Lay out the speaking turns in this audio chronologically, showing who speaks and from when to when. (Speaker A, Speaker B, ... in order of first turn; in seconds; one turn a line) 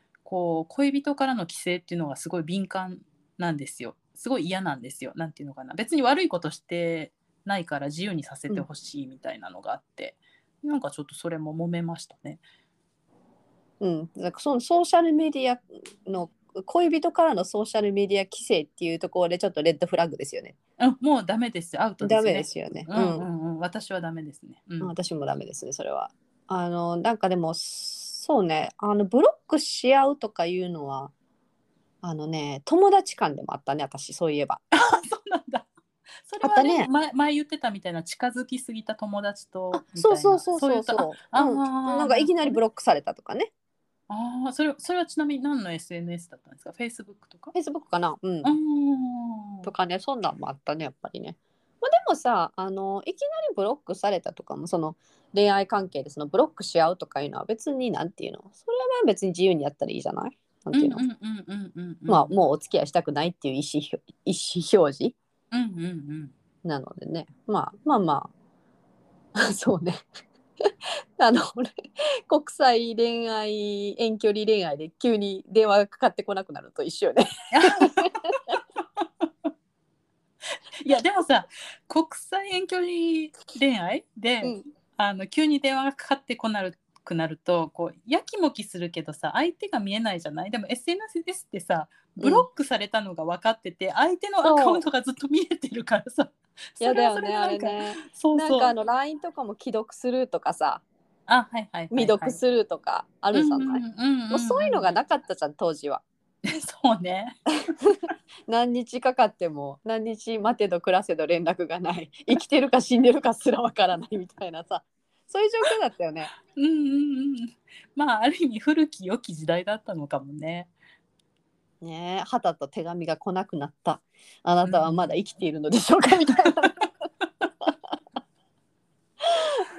Speaker A: 0.2-12.4
Speaker B: 13.8-20.6
Speaker A: 20.8-24.9
Speaker B: 22.0-23.3
Speaker B: 24.8-31.1
Speaker B: 32.0-34.6
Speaker A: 34.7-35.7
Speaker A: 36.2-42.6
Speaker B: 36.4-36.9
Speaker B: 39.7-43.5
Speaker A: 44.1-47.5
Speaker B: 47.5-48.5
Speaker A: 48.4-49.7
Speaker B: 49.6-61.0
Speaker A: 60.7-62.3
Speaker B: 62.1-65.2
Speaker A: 65.5-66.3
Speaker B: 66.6-68.3
Speaker B: 69.3-70.0
Speaker B: 70.6-78.6
Speaker A: 77.5-78.1
Speaker A: 79.0-79.3
Speaker A: 80.7-98.7
Speaker B: 92.2-92.5
Speaker B: 94.4-94.8
Speaker B: 96.8-100.8
Speaker A: 101.3-102.4
Speaker B: 101.9-106.0
Speaker A: 103.3-104.8
Speaker A: 106.4-107.4
Speaker B: 107.7-116.3
Speaker A: 116.4-120.7
Speaker B: 121.8-126.9
Speaker A: 124.6-125.1
Speaker B: 129.3-129.7